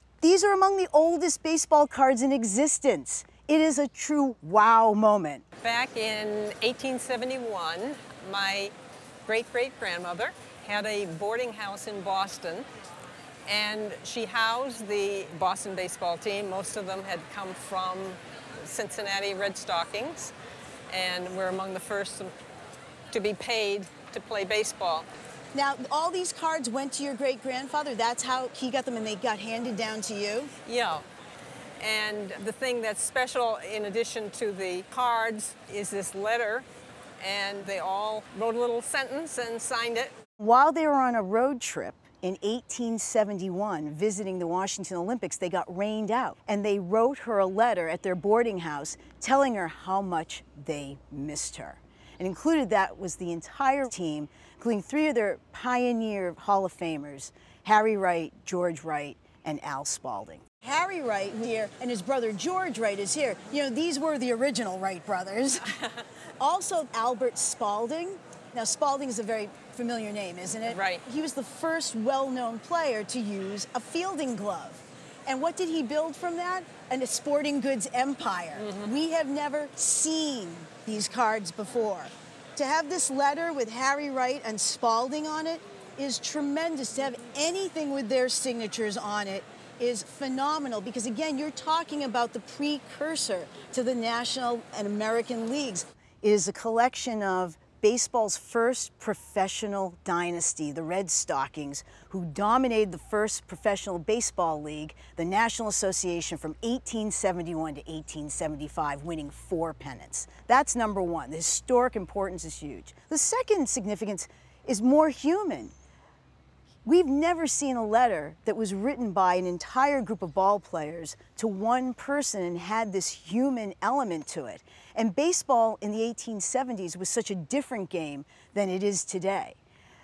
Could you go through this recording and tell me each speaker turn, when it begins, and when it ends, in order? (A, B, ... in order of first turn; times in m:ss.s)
0:00.2-0:05.4 A
0:05.6-0:08.7 B
0:09.3-0:12.7 B
0:13.5-0:20.3 B
0:20.9-0:22.3 B
0:23.1-0:25.1 B
0:25.5-0:30.5 A
0:30.6-0:31.0 B
0:31.8-0:36.7 B
0:37.2-0:40.1 B
0:40.4-1:05.8 A
1:06.4-1:55.7 A
1:10.7-1:11.0 B
1:18.6-1:18.9 B
1:56.9-2:09.6 A